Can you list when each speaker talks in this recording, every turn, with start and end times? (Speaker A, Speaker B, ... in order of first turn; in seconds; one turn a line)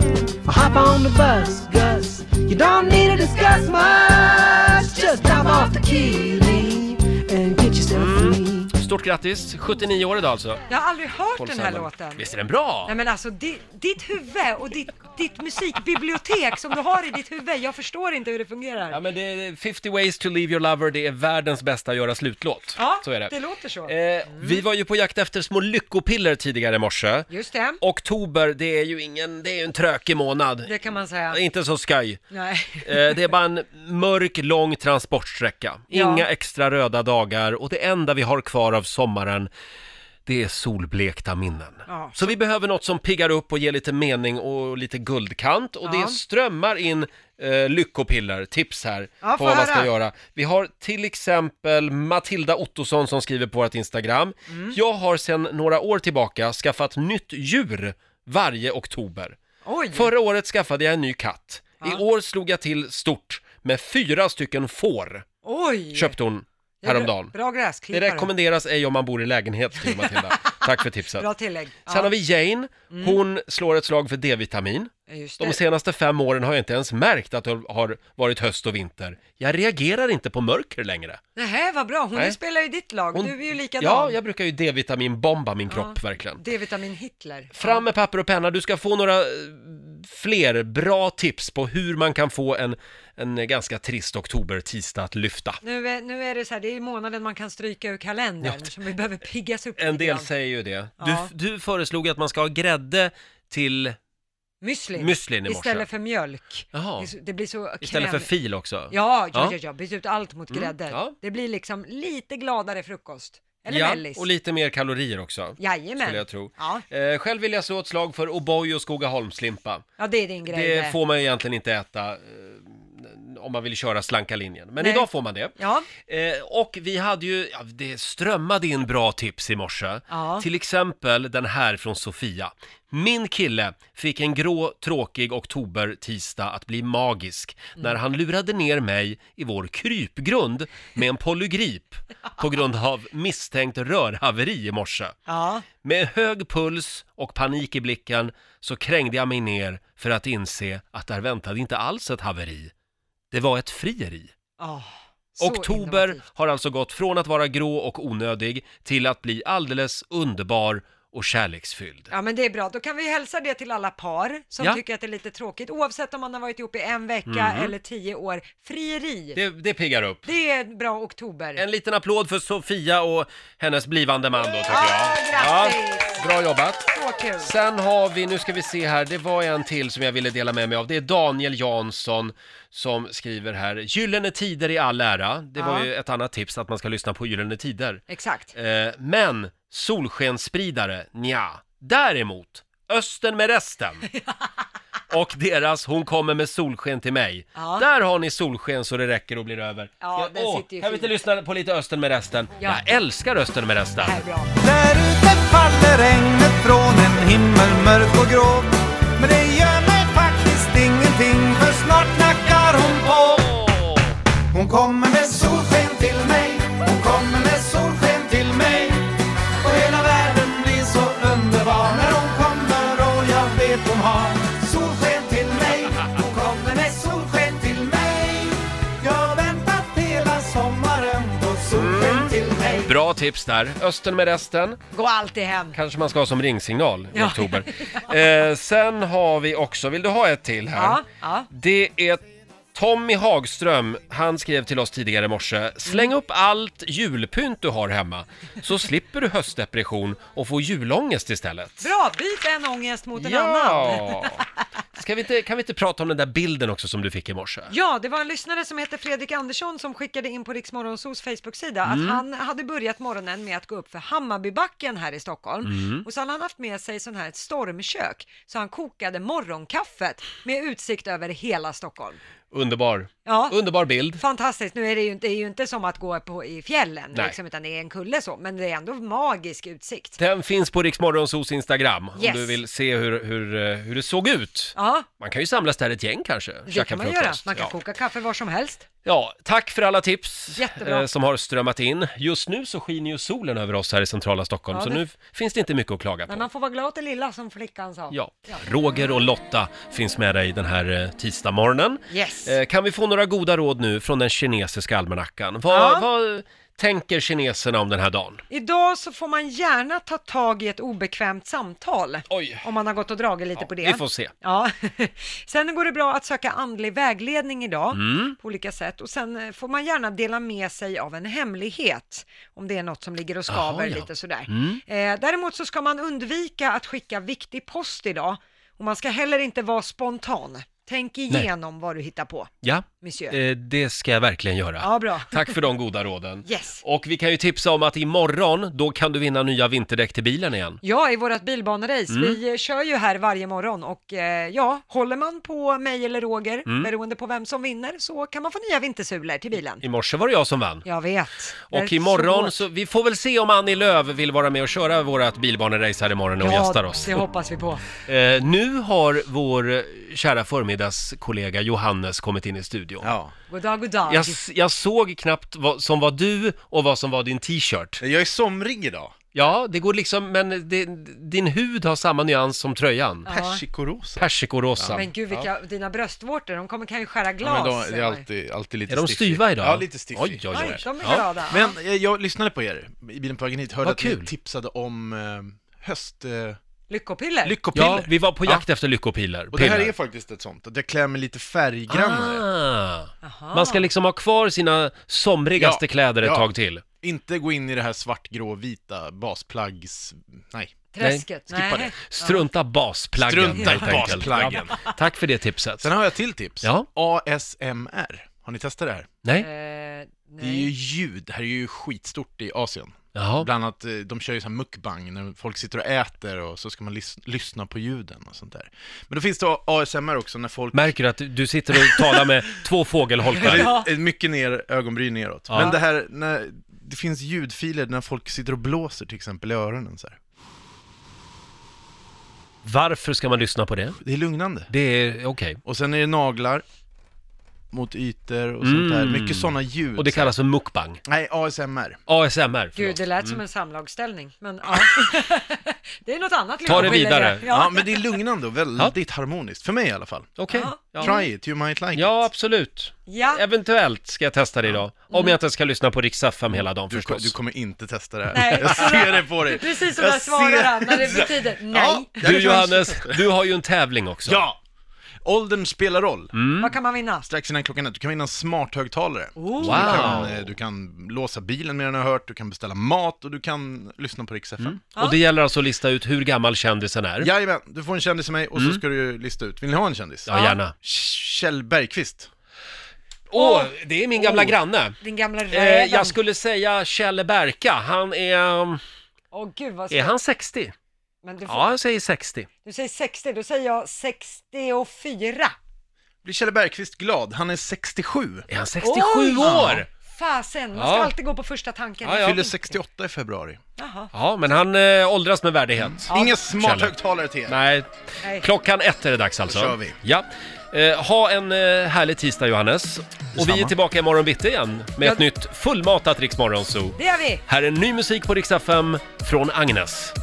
Speaker A: 0.5-8.7
Speaker B: 7.9-10.6
Speaker C: 10.7-12.3
Speaker B: 11.3-13.0
Speaker C: 12.8-19.0
Speaker B: 18.9-23.3
Speaker C: 22.8-24.6
Speaker B: 23.9-27.3
Speaker C: 27.3-27.8
Speaker B: 27.8-30.7
Speaker C: 30.7-31.4
Speaker B: 31.3-32.2
Speaker C: 32.3-33.3
Speaker B: 32.8-39.5
Speaker C: 35.9-36.3
Speaker B: 40.3-59.4
Speaker C: 41.9-42.4
Speaker C: 45.8-46.2
Speaker C: 49.2-49.9
Speaker C: 54.5-54.8
Speaker C: 59.6-60.1
Speaker B: 59.9-65.3
Speaker C: 65.4-66.2
Speaker B: 65.9-67.3
Speaker C: 66.8-68.3
Speaker B: 67.9-71.3
Speaker C: 69.8-70.5
Speaker C: 71.2-72.1
Speaker B: 71.9-81.2
Speaker C: 72.9-73.2
Speaker C: 75.1-75.6
Speaker C: 81.4-84.2
Speaker B: 83.1-86.4
Speaker C: 85.7-87.9
Speaker B: 87.5-95.6
Speaker C: 95.6-100.3
Speaker B: 98.4-98.7
Speaker B: 99.8-104.0
Speaker C: 101.0-101.3
Speaker C: 104.6-108.3
Speaker B: 105.0-105.9
Speaker B: 106.7-107.1
Speaker B: 107.8-109.6
Speaker C: 108.9-114.3
Speaker B: 110.5-111.2
Speaker B: 113.7-119.8
Speaker C: 115.6-116.8
Speaker C: 120.0-121.0
Speaker B: 120.5-145.2
Speaker C: 124.8-125.9
Speaker C: 130.1-130.5
Speaker C: 145.3-145.7
Speaker B: 145.8-152.7
Speaker B: 153.3-154.3
Speaker C: 154.6-156.3
Speaker B: 155.4-162.1
Speaker C: 162.1-169.4
Speaker B: 167.3-167.7
Speaker B: 169.3-170.3
Speaker C: 170.2-171.6
Speaker B: 171.6-176.9
Speaker C: 174.7-176.3
Speaker C: 176.8-177.5
Speaker B: 177.4-194.1
Speaker C: 185.6-185.9
Speaker C: 188.1-188.5
Speaker B: 195.1-204.2
Speaker C: 197.6-197.9
Speaker C: 200.0-201.1
Speaker C: 202.6-202.9
Speaker C: 204.0-204.5
Speaker D: 204.6-213.5
Speaker B: 213.4-214.2
Speaker D: 214.5-219.1
Speaker D: 219.6-232.9
Speaker B: 231.7-232.3
Speaker B: 232.8-234.8
Speaker C: 234.9-235.8
Speaker B: 235.7-251.9
Speaker C: 237.1-238.0
Speaker C: 240.7-241.5
Speaker C: 245.9-246.1
Speaker C: 251.8-254.4
Speaker B: 253.2-254.4
Speaker B: 254.9-257.7
Speaker C: 257.7-272.2
Speaker B: 261.9-262.2
Speaker B: 265.6-266.1
Speaker B: 272.5-274.2
Speaker C: 273.2-273.6
Speaker C: 274.1-280.2
Speaker B: 280.2-287.7
Speaker C: 282.2-282.6
Speaker C: 284.8-285.1
Speaker C: 286.7-288.9
Speaker B: 289.1-296.4
Speaker C: 290.6-291.1
Speaker C: 294.7-295.0
Speaker C: 296.3-298.7
Speaker B: 298.1-308.4
Speaker C: 302.1-302.6
Speaker C: 305.7-306.1
Speaker C: 308.5-333.4
Speaker B: 312.3-312.6
Speaker B: 313.6-314.3
Speaker B: 317.9-318.4
Speaker B: 323.5-324.8
Speaker B: 332.6-340.8
Speaker C: 334.8-335.6
Speaker C: 336.4-336.8
Speaker C: 340.8-349.9
Speaker B: 342.1-342.4
Speaker B: 346.7-346.9
Speaker B: 349.8-350.9
Speaker C: 350.9-352.6
Speaker B: 351.7-357.3
Speaker C: 356.4-357.9
Speaker B: 358.1-363.1
Speaker E: 363.0-363.3
Speaker C: 363.5-364.4
Speaker B: 364.1-368.0
Speaker E: 368.0-369.1
Speaker B: 369.3-373.3
Speaker C: 373.2-373.6
Speaker E: 373.3-375.1
Speaker B: 374.2-375.4
Speaker C: 374.9-378.2
Speaker E: 377.4-380.9
Speaker B: 378.9-381.3
Speaker C: 380.5-381.8
Speaker E: 381.5-386.6
Speaker B: 383.8-384.3
Speaker C: 386.9-387.6
Speaker E: 387.4-388.6
Speaker B: 387.7-389.9
Speaker E: 389.5-392.4
Speaker B: 391.9-396.8
Speaker C: 393.2-393.9
Speaker E: 395.6-400.9
Speaker C: 400.9-402.5
Speaker B: 401.0-401.3
Speaker E: 401.5-401.9
Speaker B: 401.9-405.9
Speaker E: 403.2-404.8
Speaker C: 403.5-404.9
Speaker E: 405.8-409.1
Speaker B: 406.6-406.9
Speaker C: 409.4-410.7
Speaker E: 410.4-420.9
Speaker B: 413.1-413.5
Speaker B: 420.7-423.7
Speaker C: 423.3-423.9
Speaker E: 423.4-430.2
Speaker B: 425.5-425.8
Speaker C: 425.5-425.8
Speaker B: 432.6-434.0
Speaker E: 434.0-434.7
Speaker B: 434.7-435.6
Speaker E: 435.6-436.6
Speaker E: 437.7-440.3
Speaker B: 438.6-441.0
Speaker E: 441.1-442.0
Speaker B: 442.1-443.4
Speaker C: 442.8-448.2
Speaker B: 446.6-447.5
Speaker E: 446.7-450.4
Speaker B: 450.4-451.2
Speaker C: 450.5-451.3
Speaker E: 451.0-452.3
Speaker B: 451.9-457.4
Speaker C: 453.1-453.4
Speaker C: 455.1-455.4
Speaker E: 456.5-463.2
Speaker C: 458.3-462.2
Speaker B: 458.4-458.9
Speaker B: 462.2-464.4
Speaker E: 464.3-464.6
Speaker E: 465.2-466.3
Speaker B: 466.3-466.8
Speaker C: 466.6-467.3
Speaker E: 467.3-474.8
Speaker C: 469.4-470.3
Speaker B: 469.6-470.5
Speaker B: 474.6-477.3
Speaker E: 477.2-482.3
Speaker B: 478.6-478.8
Speaker B: 480.3-480.7
Speaker B: 483.3-485.0
Speaker C: 483.4-486.2
Speaker B: 485.5-488.8
Speaker C: 489.3-490.2
Speaker B: 489.9-490.7
Speaker C: 491.2-491.7
Speaker B: 491.5-492.5
Speaker C: 492.6-495.6
Speaker E: 496.2-498.5
Speaker B: 498.5-499.9
Speaker C: 498.8-502.7
Speaker E: 499.4-499.9
Speaker B: 500.8-501.1
Speaker B: 502.0-502.5
Speaker E: 502.1-503.6
Speaker C: 503.8-504.1
Speaker B: 504.1-520.1
Speaker E: 505.8-507.6
Speaker C: 506.1-506.4
Speaker C: 508.2-508.5
Speaker E: 509.5-510.0
Speaker E: 513.4-513.8
Speaker C: 515.0-515.2
Speaker C: 517.0-517.4